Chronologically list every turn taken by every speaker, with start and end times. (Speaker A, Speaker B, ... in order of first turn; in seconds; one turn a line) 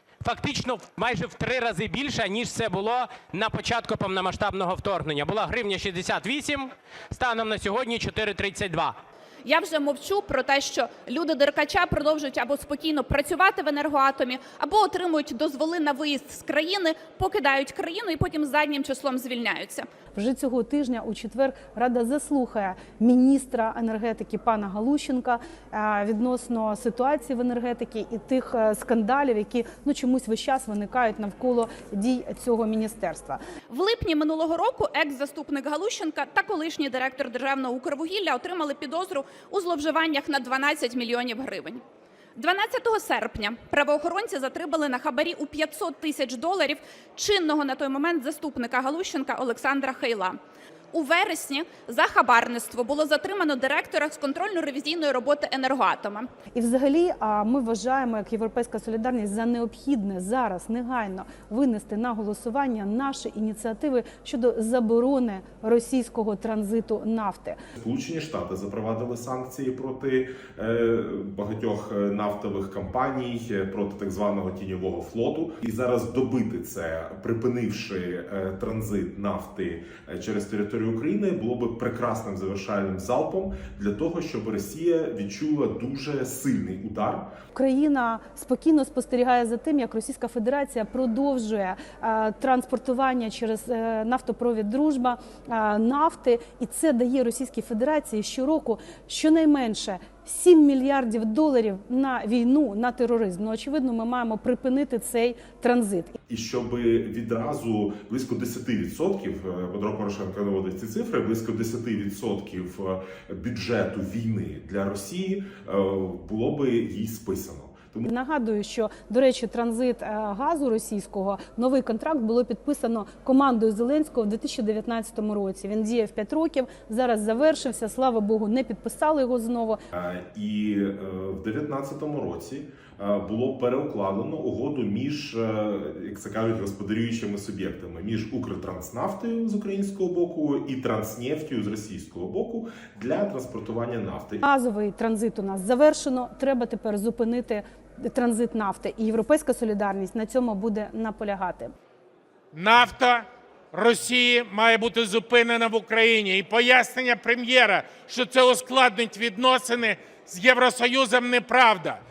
Speaker A: 0.2-9.0
Speaker B: 9.4-19.9
Speaker C: 20.1-33.4
Speaker B: 33.7-41.8
Speaker B: 42.4-50.4
Speaker B: 50.9-56.3
Speaker C: 56.5-67.6
Speaker D: 67.8-87.3
Speaker C: 87.5-106.2
Speaker D: 106.3-118.0
Speaker C: 118.0-129.8
Speaker D: 129.9-144.4
Speaker C: 144.4-151.7
Speaker E: 152.5-153.2
Speaker E: 153.7-162.0